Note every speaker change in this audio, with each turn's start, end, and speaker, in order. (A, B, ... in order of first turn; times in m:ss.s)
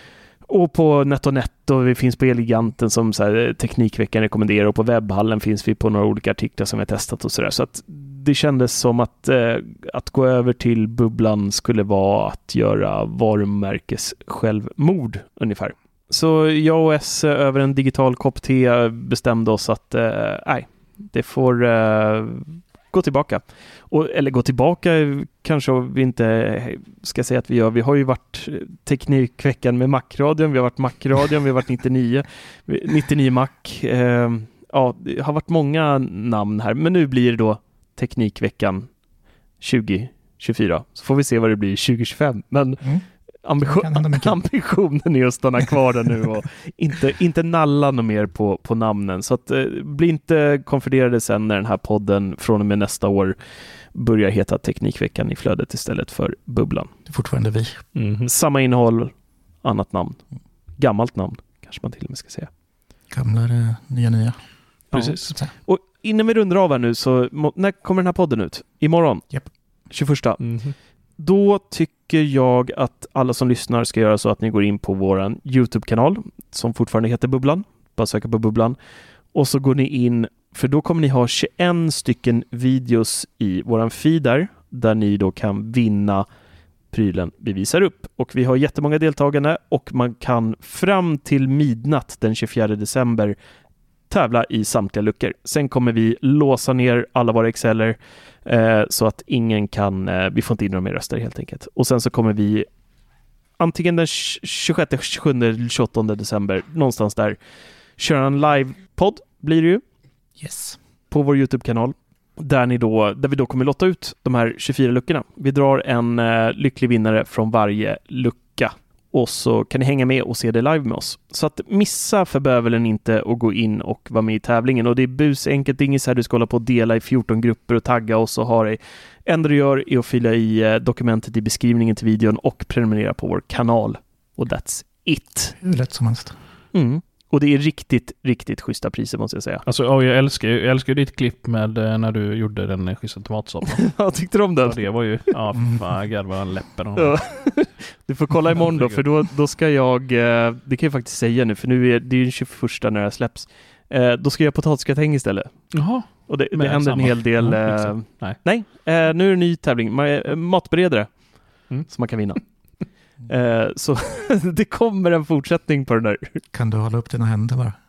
0:00.5-0:38.9 A
0:39.6-0:42.8 A
0:43.4-0:53.4 A
0:43.6-0:44.4 B
0:53.9-0:56.9 A
0:57.0-0:57.8 B
0:57.9-0:58.3 C
0:58.2-1:00.2 A
1:00.8-1:02.5 A
1:03.1-1:04.4 B
1:04.9-1:05.3 C
1:04.9-1:09.2 A
1:09.9-1:10.4 A
1:10.4-1:10.7 C
1:11.2-1:18.8 A
1:19.3-1:26.2 A
1:26.9-1:33.4 A
1:34.1-1:42.7 A
1:43.6-1:47.4 A
1:48.0-1:49.8 A
1:50.4-1:50.8 B
1:51.1-2:15.6 A
2:15.6-2:16.3 B
2:16.7-2:19.6 A
2:19.6-2:24.0 C
2:23.8-2:24.8 A
2:24.6-2:27.5 C
2:25.6-2:25.8 B
2:27.0-2:35.7 A
2:28.5-2:29.0 C
2:35.7-2:38.4 C
2:36.2-2:41.1 A
2:41.9-2:42.4 A
2:43.3-2:46.4 A
2:46.5-2:47.8 B